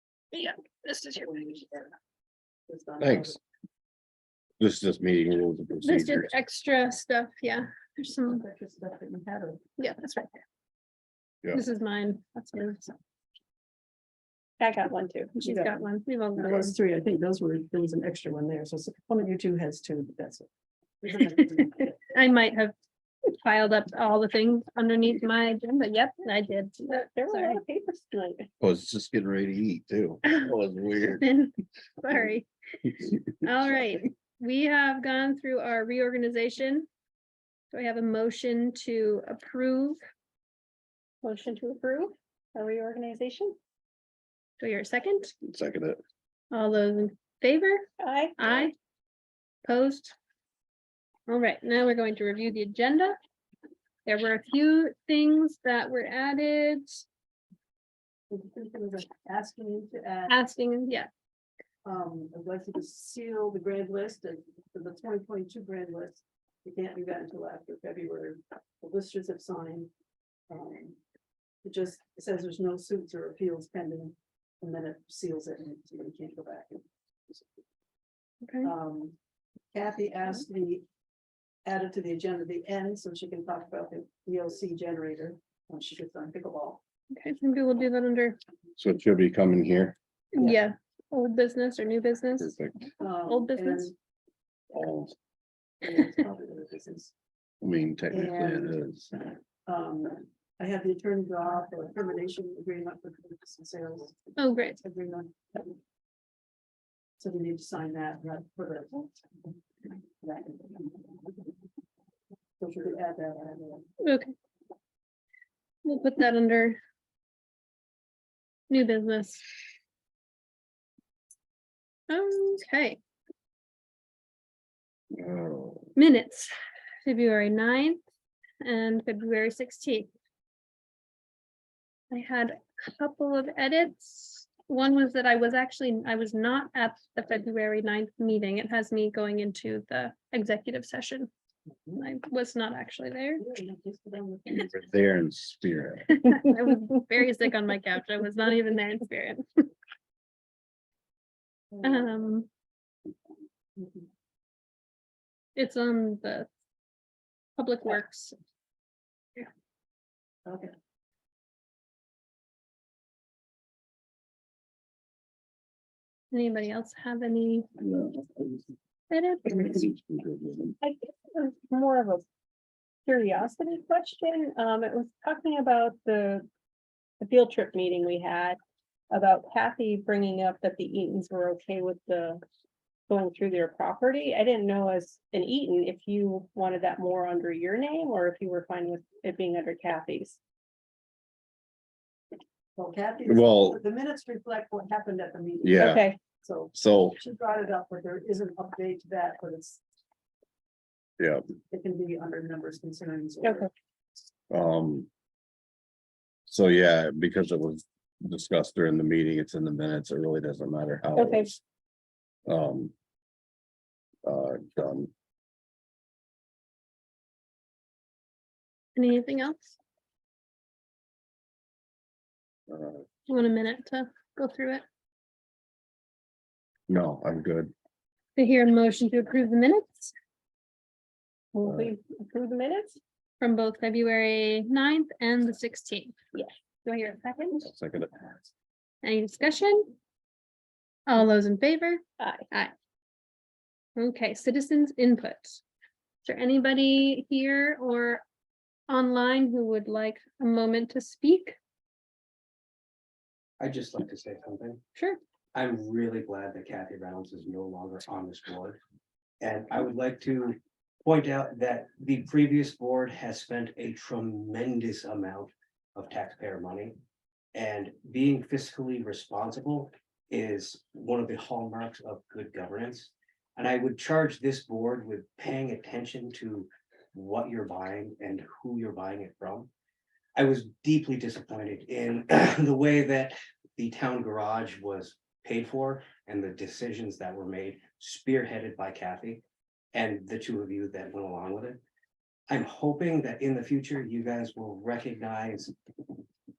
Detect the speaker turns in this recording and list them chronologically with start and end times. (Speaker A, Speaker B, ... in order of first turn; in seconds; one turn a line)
Speaker A: 0.3-1.3
Speaker B: 1.1-1.9
Speaker B: 2.7-3.4
Speaker C: 3.0-3.4
Speaker C: 4.6-6.4
Speaker A: 5.8-8.4
Speaker B: 8.3-9.6
Speaker A: 9.8-10.3
Speaker A: 11.5-12.9
Speaker D: 14.6-15.8
Speaker A: 15.4-16.7
Speaker B: 16.4-20.5
Speaker B: 21.0-22.0
Speaker A: 21.4-22.7
Speaker A: 23.4-27.6
Speaker D: 26.8-28.5
Speaker C: 28.6-31.2
Speaker A: 30.3-30.5
Speaker A: 31.2-32.5
Speaker A: 33.4-36.9
Speaker A: 37.7-40.0
Speaker D: 41.2-43.6
Speaker A: 44.6-45.3
Speaker C: 45.4-46.0
Speaker A: 46.5-47.9
Speaker D: 48.0-48.5
Speaker A: 48.4-48.8
Speaker A: 49.6-50.1
Speaker A: 51.3-53.2
Speaker A: 54.1-57.0
Speaker B: 58.3-60.4
Speaker A: 60.3-61.1
Speaker B: 61.9-69.9
Speaker B: 70.5-71.0
Speaker B: 71.6-76.8
Speaker A: 78.4-78.7
Speaker B: 78.6-79.2
Speaker B: 79.7-80.9
Speaker B: 81.7-86.8
Speaker A: 87.1-88.4
Speaker C: 88.8-90.0
Speaker A: 90.3-92.6
Speaker B: 90.4-90.6
Speaker C: 92.4-92.8
Speaker B: 93.0-93.9
Speaker A: 93.3-93.9
Speaker C: 94.7-95.2
Speaker B: 95.8-97.1
Speaker C: 97.6-99.1
Speaker B: 98.1-98.8
Speaker B: 99.7-104.2
Speaker A: 104.4-104.8
Speaker B: 104.8-105.8
Speaker B: 107.2-109.2
Speaker B: 110.2-111.4
Speaker B: 112.6-113.9
Speaker A: 114.0-114.3
Speaker A: 115.8-116.8
Speaker A: 118.7-119.4
Speaker A: 122.1-123.0
Speaker C: 125.1-125.9
Speaker A: 126.0-126.5
Speaker A: 127.0-128.0
Speaker A: 128.6-130.1
Speaker A: 132.1-141.3
Speaker A: 141.9-143.4
Speaker B: 143.4-144.8
Speaker C: 144.6-146.2
Speaker A: 146.2-149.7
Speaker B: 151.7-152.1
Speaker A: 151.8-152.5
Speaker B: 153.8-154.0
Speaker A: 155.6-156.5
Speaker A: 157.6-158.4
Speaker B: 160.5-160.7
Speaker A: 166.3-167.7
Speaker C: 167.8-168.6
Speaker A: 169.1-169.5
Speaker C: 169.5-170.8
Speaker D: 170.8-172.2
Speaker D: 173.1-176.5
Speaker D: 177.2-178.6
Speaker D: 179.1-182.4
Speaker D: 183.1-190.4
Speaker B: 192.8-199.8
Speaker C: 193.3-193.8
Speaker C: 195.6-196.1
Speaker D: 195.8-196.2
Speaker C: 196.7-197.2
Speaker B: 201.7-203.7
Speaker D: 203.4-203.7
Speaker C: 204.5-205.1
Speaker C: 206.5-211.6
Speaker D: 211.2-211.5
Speaker C: 212.5-212.9
Speaker C: 214.2-215.1
Speaker A: 219.0-219.8
Speaker C: 222.7-223.0
Speaker A: 223.3-224.8
Speaker C: 226.9-227.7
Speaker A: 228.4-230.1
Speaker D: 231.5-233.0
Speaker C: 231.7-231.9
Speaker A: 233.4-236.2
Speaker A: 236.8-237.7
Speaker C: 237.6-238.5
Speaker A: 239.0-239.9
Speaker A: 241.1-242.7
Speaker D: 242.2-242.5
Speaker A: 244.0-245.6
Speaker A: 246.2-248.2
Speaker A: 248.9-251.6
Speaker E: 253.6-254.8
Speaker E: 255.5-258.8
Speaker E: 259.4-267.0
Speaker E: 267.5-279.7
Speaker E: 280.4-289.4
Speaker E: 289.9-291.8
Speaker E: 292.5-295.7